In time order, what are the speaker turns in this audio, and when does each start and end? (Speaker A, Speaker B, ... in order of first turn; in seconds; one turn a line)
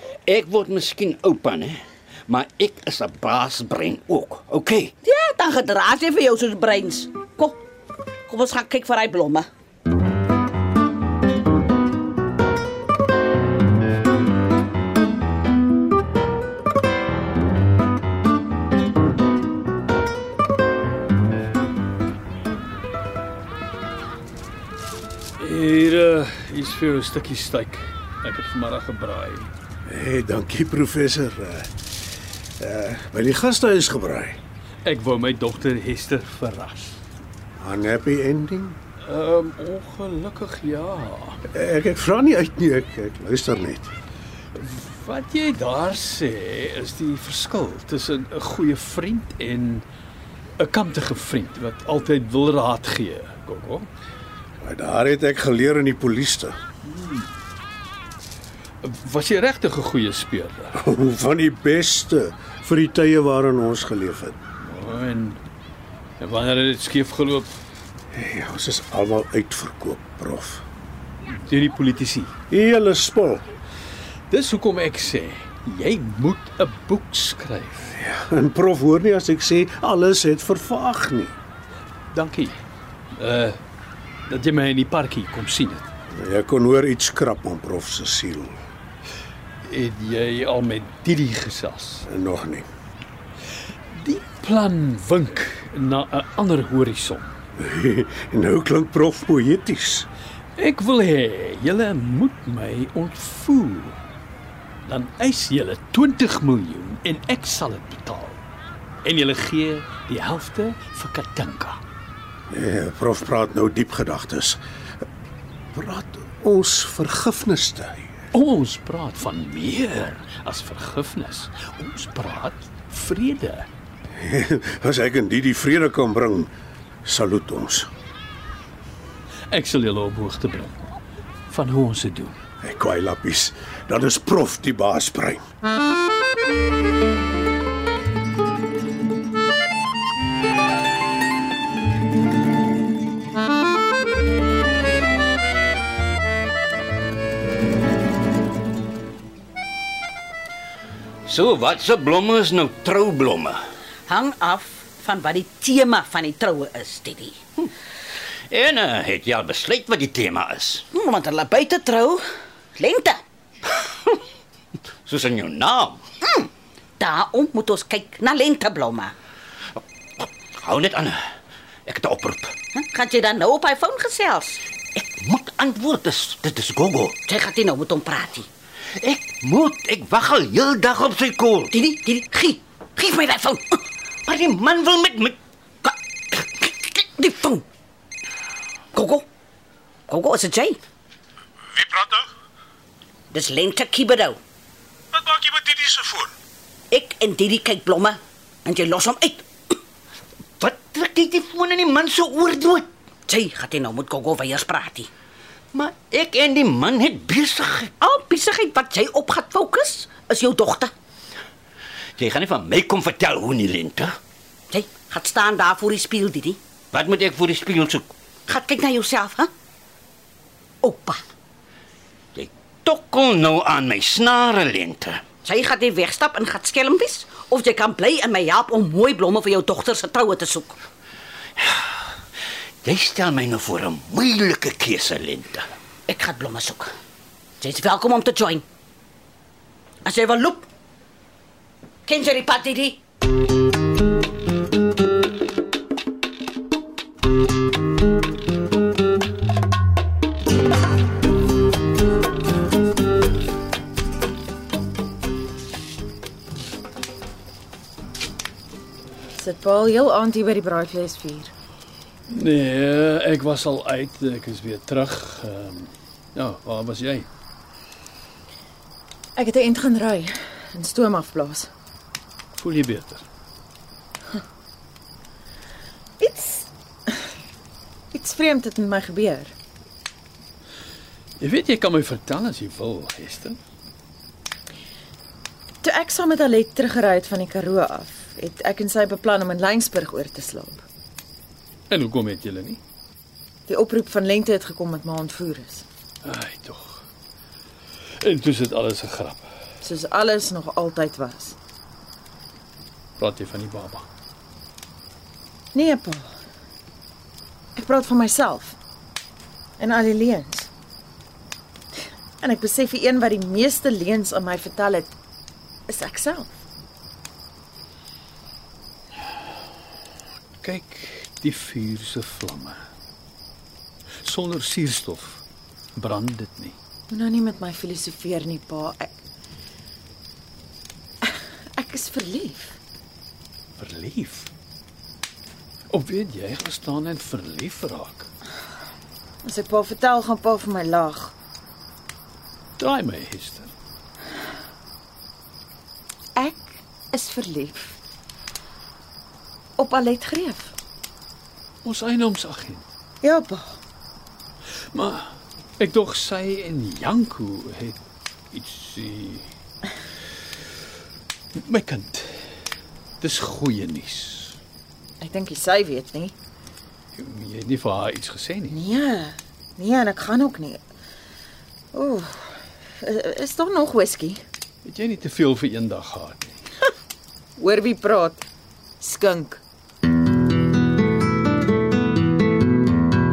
Speaker A: 0.2-4.9
Speaker B: 5.0-7.6
Speaker B: 8.3-9.5
Speaker C: 25.4-29.5
Speaker D: 29.9-31.7
Speaker D: 32.6-34.4
Speaker C: 34.8-37.0
Speaker D: 37.6-38.8
Speaker C: 39.0-41.4
Speaker D: 41.5-43.9
Speaker C: 44.5-49.9
Speaker C: 50.6-53.9
Speaker D: 54.6-56.5
Speaker C: 57.0-57.2
Speaker C: 58.8-60.8
Speaker D: 60.7-64.4
Speaker C: 64.6-65.4
Speaker C: 66.2-67.5
Speaker D: 68.1-70.6
Speaker C: 71.5-72.3
Speaker D: 72.5-73.4
Speaker C: 74.3-78.0
Speaker D: 78.0-81.3
Speaker C: 82.1-82.5
Speaker C: 83.1-83.6
Speaker C: 84.3-85.9
Speaker D: 86.1-88.6
Speaker C: 89.6-92.0
Speaker D: 92.1-92.7
Speaker C: 93.9-97.3
Speaker D: 97.6-100.1
Speaker C: 100.5-104.0
Speaker C: 104.8-108.4
Speaker C: 109.0-111.8
Speaker D: 112.5-114.6
Speaker D: 115.7-118.1
Speaker C: 118.3-123.7
Speaker D: 124.1-126.5
Speaker D: 127.0-127.9
Speaker C: 129.5-130.8
Speaker C: 131.5-132.4
Speaker D: 132.6-135.4
Speaker A: 151.2-153.6
Speaker B: 154.1-157.4
Speaker A: 158.5-160.8
Speaker B: 160.9-163.2
Speaker A: 165.0-166.0
Speaker B: 166.2-166.5
Speaker B: 167.0-169.1
Speaker A: 170.6-171.2
Speaker A: 171.8-172.5
Speaker B: 172.7-174.6
Speaker A: 174.9-177.2
Speaker B: 177.3-178.4
Speaker A: 179.0-181.7
Speaker B: 181.7-183.8
Speaker A: 184.2-185.4
Speaker B: 185.8-187.6
Speaker B: 188.9-189.2
Speaker B: 190.1-190.8
Speaker D: 191.8-192.2
Speaker B: 193.3-194.4
Speaker D: 195.1-196.3
Speaker B: 196.9-199.7
Speaker A: 200.6-202.9
Speaker B: 203.3-205.1
Speaker A: 205.7-207.9
Speaker B: 208.0-210.9
Speaker A: 212.2-214.2
Speaker B: 214.7-216.6
Speaker A: 216.9-218.1
Speaker B: 218.5-219.5
Speaker B: 220.8-221.2
Speaker A: 222.3-225.2
Speaker B: 225.4-230.8
Speaker A: 231.6-231.9
Speaker A: 232.8-235.7
Speaker B: 236.1-236.9
Speaker B: 237.6-238.6
Speaker B: 240.0-240.7
Speaker B: 242.1-243.0
Speaker E: 259.3-261.5
Speaker C: 262.3-267.3
Speaker E: 269.4-271.7
Speaker C: 272.5-273.2
Speaker E: 276.2-276.7
Speaker E: 278.1-279.5
Speaker C: 281.4-283.6
Speaker E: 285.8-290.9
Speaker C: 291.9-292.8
Speaker E: 293.7-295.8
Speaker C: 296.2-297.0
Speaker C: 298.2-299.4
Speaker E: 299.8-301.6
Speaker C: 303.2-304.1
Speaker E: 305.7-306.3
Speaker E: 307.8-308.8
Speaker E: 309.8-310.7
Speaker E: 312.4-315.1
Speaker E: 315.9-316.6
Speaker C: 320.6-322.8
Speaker C: 324.2-325.4
Speaker C: 325.9-326.8
Speaker E: 327.1-329.1
Speaker E: 331.8-332.8
Speaker C: 333.8-334.5
Speaker C: 335.9-338.3
Speaker E: 339.4-341.3
Speaker C: 342.8-343.7
Speaker E: 346.4-348.0
Speaker E: 349.8-350.7
Speaker C: 351.8-352.8
Speaker E: 353.2-353.8
Speaker C: 354.9-358.0
Speaker C: 358.5-359.4
Speaker C: 361.5-362.5
Speaker C: 363.2-364.6
Speaker E: 365.2-366.3
Speaker C: 367.1-368.8
Speaker E: 368.7-370.8
Speaker E: 371.9-374.4
Speaker C: 374.8-376.5
Speaker E: 377.6-378.4
Speaker E: 379.0-379.6